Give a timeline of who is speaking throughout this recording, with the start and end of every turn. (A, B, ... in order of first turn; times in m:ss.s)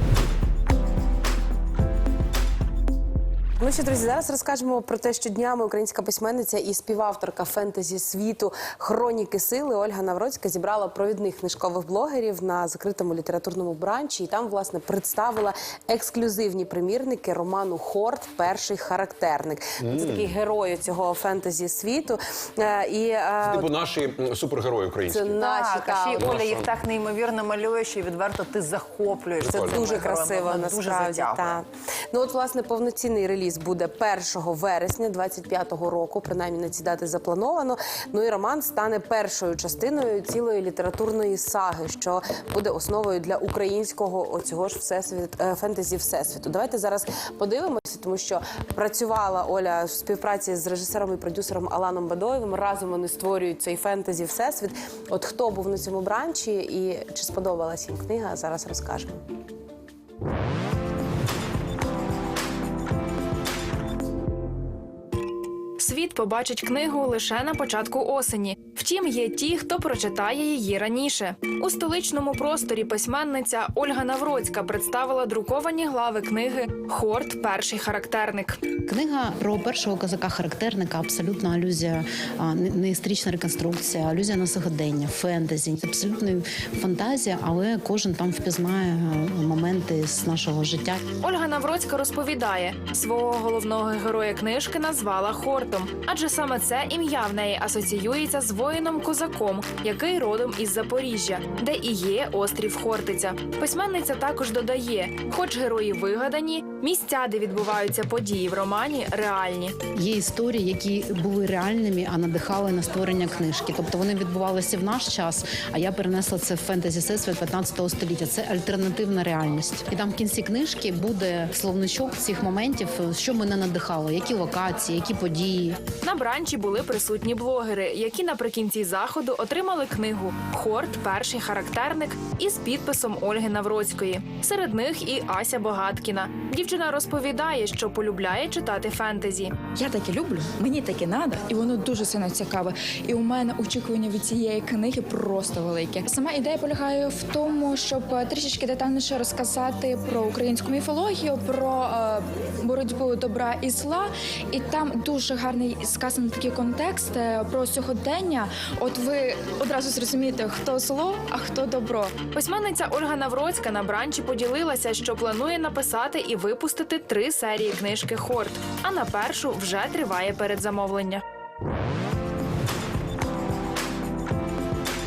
0:03.6-0:23.7 A
0:19.8-0:20.3 B
0:23.4-0:25.4 B
0:25.1-0:26.4 A
0:25.3-0:31.6 C
0:26.1-0:26.7 B
0:29.4-0:30.1 B
0:29.5-0:59.1 A
1:05.8-1:18.6 D
1:18.8-1:31.0 E
1:31.2-1:49.8 D
1:49.9-2:05.8 E
2:06.0-2:19.6 D
2:19.7-2:42.2 F
2:42.3-2:51.2 D